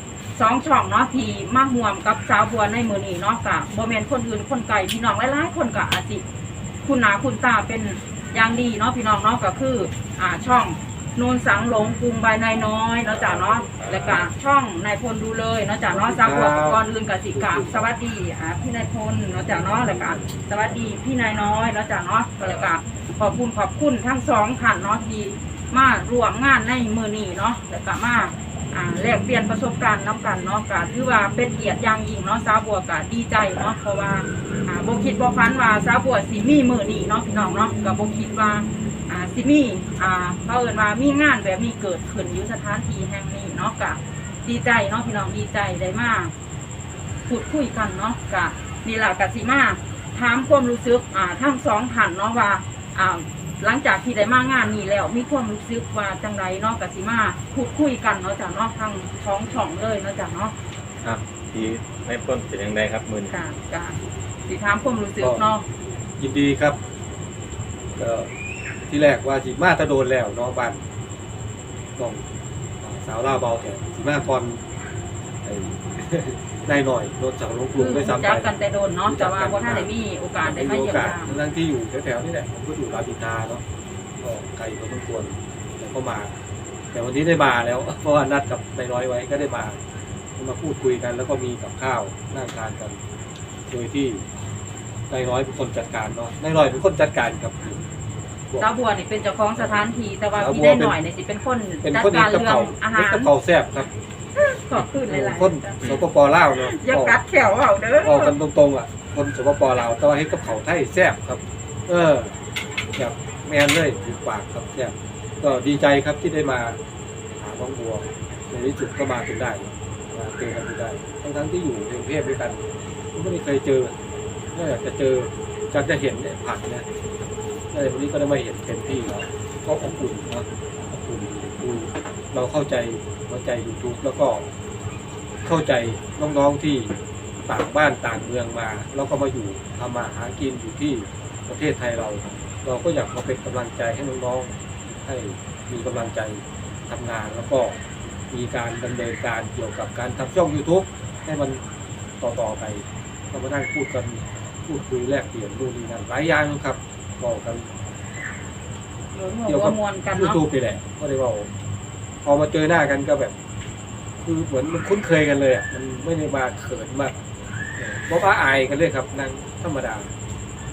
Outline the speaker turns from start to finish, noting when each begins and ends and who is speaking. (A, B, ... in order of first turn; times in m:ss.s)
0:00.3-0:06.2 A
0:06.8-0:46.3 A
0:13.0-0:14.3 B
0:15.9-0:16.8 C
0:17.3-0:17.9 C
0:19.7-0:20.5 C
0:22.4-0:22.7 B
0:47.3-1:00.5 A
1:01.0-1:03.4 B
1:03.3-1:05.6 A
1:05.2-1:05.5 C
1:06.2-1:06.8 C
1:08.0-1:08.3 C
1:08.9-1:10.8 C
1:12.0-1:12.2 C
1:12.8-1:14.6 C
1:15.4-1:18.5 C
1:17.7-1:21.4 A
1:19.0-1:19.9 C
1:20.4-1:23.6 C
1:24.2-1:26.3 C
1:26.9-1:29.8 C
1:30.4-1:33.0 C
1:33.7-1:34.2 C
1:35.1-1:37.8 C
1:38.6-1:43.3 A
1:39.6-1:41.0 C
1:41.8-1:43.9 C
1:44.4-1:45.8 A
1:44.8-1:47.2 C
1:46.7-1:48.3 A
1:48.0-1:52.3 C
1:53.0-1:56.8 C
1:57.3-2:03.9 C
2:04.5-2:06.8 C
2:07.7-2:14.5 C
2:15.4-2:27.8 C
2:28.3-2:31.6 C
2:32.2-2:37.7 C
2:39.1-2:40.4 A
2:39.5-2:41.5 C
2:42.2-2:43.4 C
2:44.2-2:47.1 C
2:47.8-2:50.1 C